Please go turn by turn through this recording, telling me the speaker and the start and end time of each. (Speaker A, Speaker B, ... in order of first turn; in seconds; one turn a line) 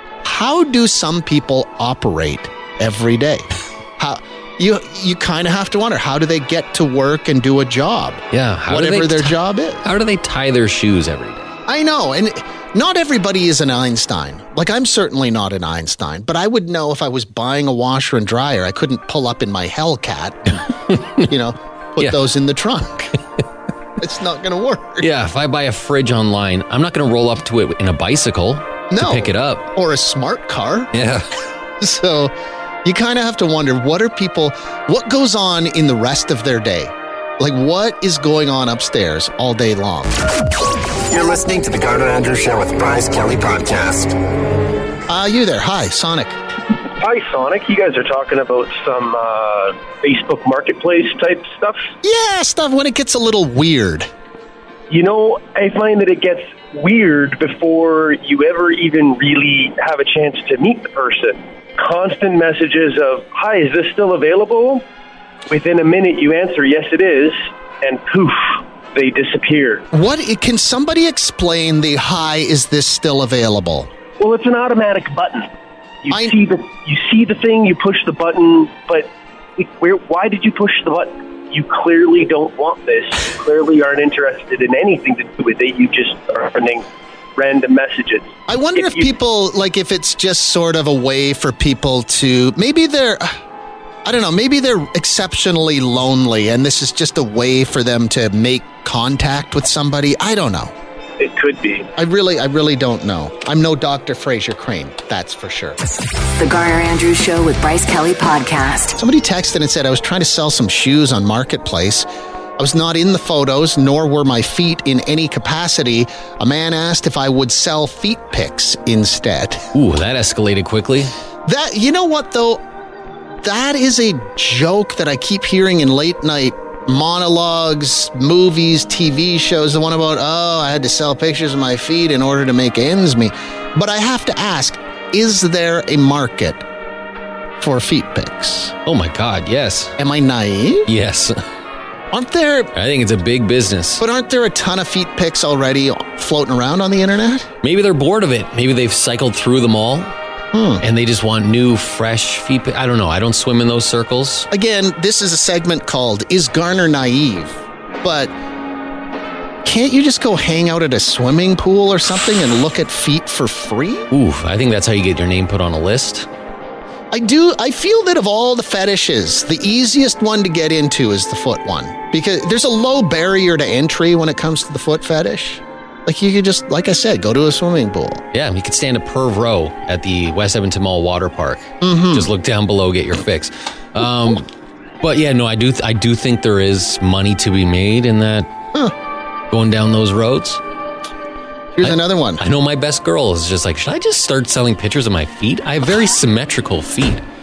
Speaker A: 0.2-9.8
Speaker B: 8.3-11.5
Speaker A: 11.7-23.1
Speaker A: 24.0-25.1
Speaker B: 25.0-29.7
Speaker A: 28.9-30.9
Speaker B: 30.9-31.3
Speaker A: 31.8-32.3
Speaker A: 32.8-40.2
Speaker C: 41.1-44.1
Speaker A: 45.1-46.3
Speaker D: 47.0-51.9
Speaker A: 52.0-54.1
Speaker D: 54.9-64.8
Speaker D: 65.5-68.4
Speaker D: 68.9-69.8
Speaker A: 69.9-73.9
Speaker D: 74.2-75.5
Speaker D: 76.0-86.8
Speaker A: 76.1-76.3
Speaker D: 87.4-89.0
Speaker A: 88.5-93.3
Speaker A: 94.0-100.7
Speaker D: 101.2-101.9
Speaker A: 102.0-105.8
Speaker E: 106.3-109.0
Speaker A: 109.0-112.1
Speaker A: 112.6-119.6
Speaker B: 119.7-121.1
Speaker A: 121.4-122.6
Speaker A: 123.4-136.6
Speaker A: 137.6-138.7
Speaker B: 138.8-139.9
Speaker A: 140.0-140.9
Speaker B: 140.9-141.4
Speaker A: 142.1-142.7
Speaker B: 142.7-144.0
Speaker A: 144.0-147.5
Speaker B: 147.6-150.1
Speaker A: 150.5-150.8
Speaker B: 150.8-154.5
Speaker A: 154.5-158.3
Speaker A: 159.6-164.1
Speaker B: 164.1-166.3
Speaker A: 167.1-178.2
Speaker B: 178.3-184.5
Speaker A: 181.8-182.3
Speaker B: 185.0-188.5
Speaker B: 189.5-190.6
Speaker A: 191.7-192.4
Speaker B: 191.8-197.2